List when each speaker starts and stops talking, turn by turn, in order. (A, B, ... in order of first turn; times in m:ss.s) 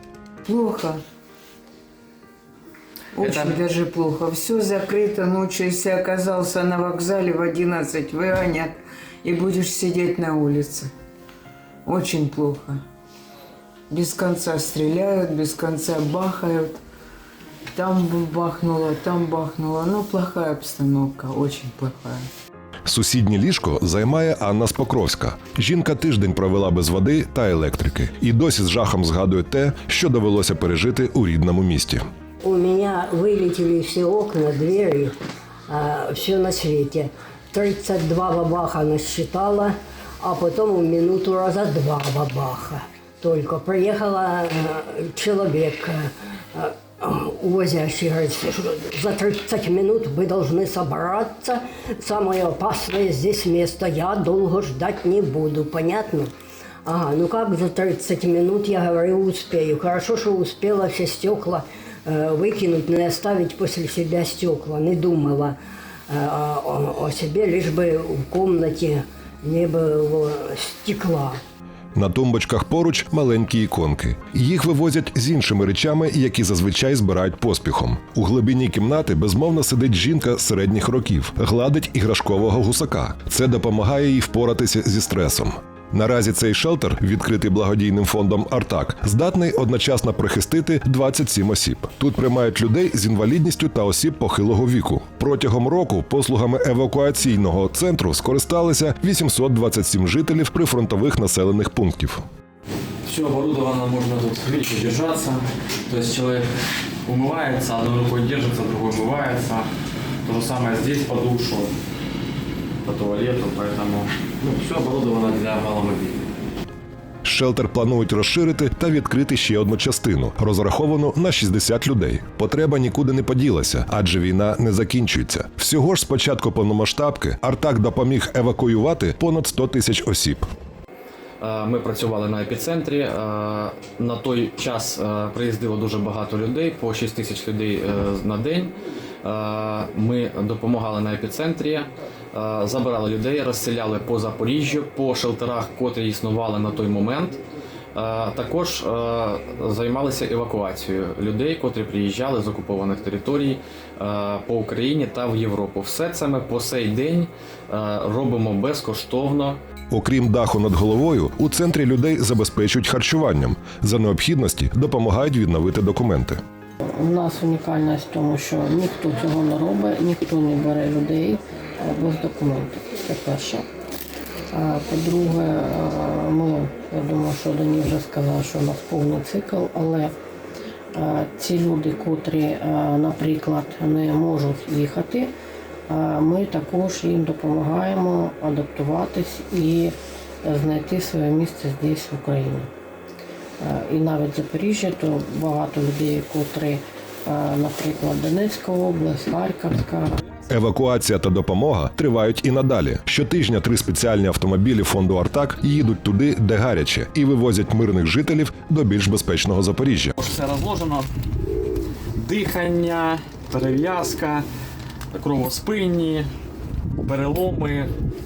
0:00.5-0:01.0 A
0:03.2-0:10.9 A
0:11.9-0:12.8 A
0:13.9-0:16.8 A
0:17.7-0:22.3 A
0:22.9-0:32.0 B
0:32.4-0:35.2 C
0:35.7-0:56.3 C
0:56.9-1:05.6 C
1:06.1-1:11.4 C
1:12.0-1:42.2 B
1:43.0-1:46.5 D
1:47.0-1:49.7 D
1:50.2-1:51.7 D
1:52.8-1:56.2 D
1:57.2-2:10.5 B
2:11.4-2:27.4 D
2:28.0-2:39.6 D
2:39.9-2:46.4 B
2:47.0-2:53.6 E
2:54.5-3:00.1 E
3:01.0-3:05.3 E
3:05.9-3:12.7 E
3:13.6-3:20.1 E
3:20.5-3:30.1 B
3:30.2-3:31.1 D
3:32.2-3:34.5 D
3:35.1-3:36.3 D
3:37.0-3:37.9 D